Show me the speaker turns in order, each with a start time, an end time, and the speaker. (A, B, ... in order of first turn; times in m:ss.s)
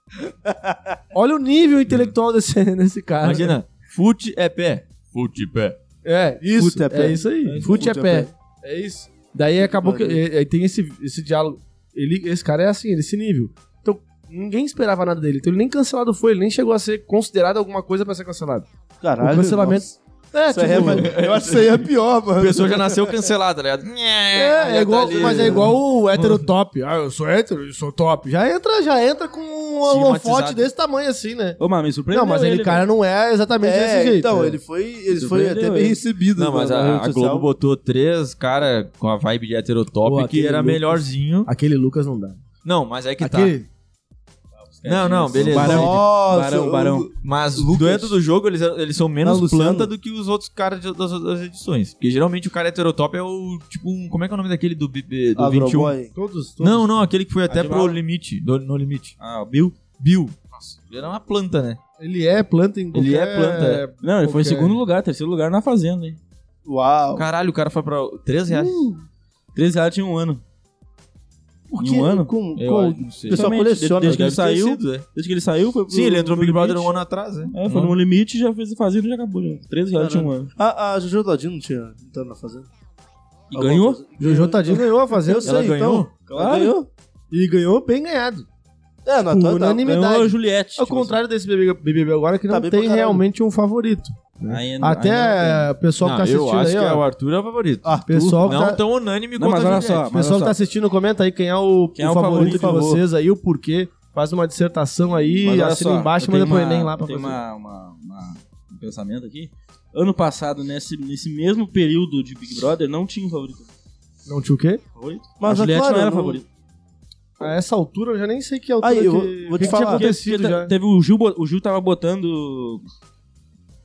0:00.3-0:01.0 A
0:01.1-0:03.6 B
0:01.9-0:02.1 C
0:03.2-0:05.8 C
0:06.0-0:18.7 B
0:06.5-0:08.3 A
0:07.4-0:07.9 D
0:09.6-0:10.2 A
0:19.0-0:19.9 A
0:19.2-0:21.1 B
0:20.5-0:23.1 A
0:20.7-0:26.4 C
0:24.3-0:31.6 B
0:24.6-0:25.7 A
0:29.8-0:30.7 C
0:31.6-0:32.8 D
0:32.1-0:34.6 B
0:33.6-0:37.5 A
0:35.1-0:36.0 D
0:36.3-0:41.5 C
0:40.0-0:42.4 B
0:42.6-0:43.6 C
0:43.2-0:43.7 B
0:44.6-0:47.1 D
0:44.8-0:46.0 C
0:45.4-0:48.2 A
0:47.2-0:55.9 C
0:49.2-0:49.9 A
0:55.4-0:56.1 A
0:56.1-0:56.9 B
0:56.6-0:59.2 C
0:57.5-0:58.0 D
0:59.2-0:59.8 D
1:00.0-1:01.8 C
1:02.0-1:04.8 B
1:02.9-1:03.8 C
1:04.0-1:06.2 D
1:06.6-1:07.2 A
1:07.1-1:08.9 C
1:09.5-1:10.4 D
1:11.7-1:14.3 A
1:11.8-1:12.3 D
1:12.6-1:15.0 C
1:13.3-1:16.9 D
1:15.9-1:18.0 C
1:17.5-1:20.5 D
1:20.0-1:22.7 A
1:23.5-1:24.0 D
1:23.5-1:26.9 A
1:24.2-1:25.6 B
1:25.4-1:26.1 C
1:26.3-1:26.8 D
1:27.3-1:28.4 B
1:29.0-1:29.9 A
1:29.3-1:37.0 B
1:29.8-1:31.2 D
1:32.5-1:33.2 A
1:34.5-1:35.7 D
1:36.0-1:40.1 C
1:37.8-1:38.6 A
1:38.1-1:38.8 B
1:39.4-1:40.6 D
1:40.1-1:47.4 B
1:42.0-1:43.0 D
1:42.3-1:43.0 A
1:45.4-1:53.7 D
1:54.2-1:54.8 B
1:55.0-1:56.4 D
1:55.4-1:56.4 A
1:57.4-2:00.7 B
1:58.8-2:00.1 A
1:59.6-2:02.8 D